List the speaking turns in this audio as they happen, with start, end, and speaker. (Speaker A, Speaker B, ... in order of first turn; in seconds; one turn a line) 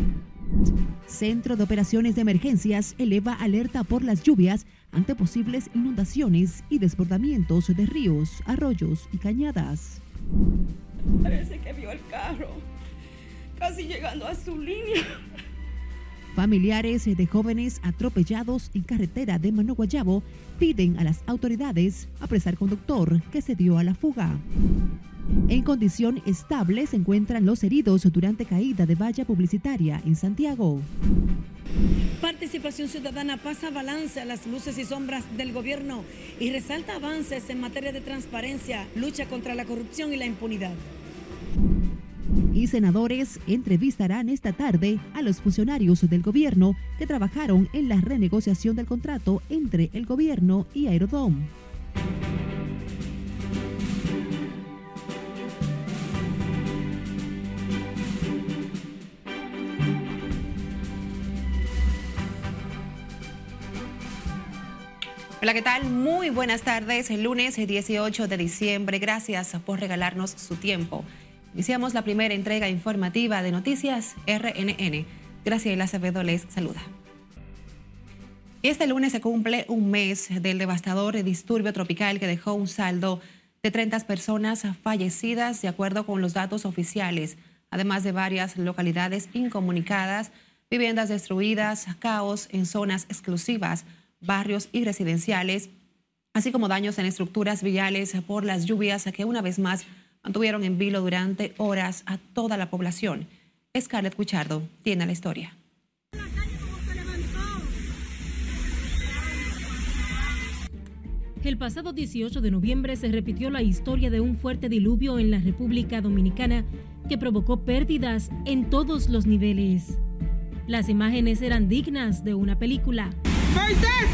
Speaker A: 1.1-10.0
Speaker B: 11.2-12.6
Speaker B: 13.6-15.0
Speaker A: 16.3-24.4
Speaker A: 25.5-30.9
Speaker C: 32.2-40.8
Speaker A: 42.5-51.5
Speaker D: 65.4-76.9
Speaker D: 78.6-95.7
Speaker D: 96.3-105.5
Speaker E: 111.4-120.0
Speaker E: 120.7-123.2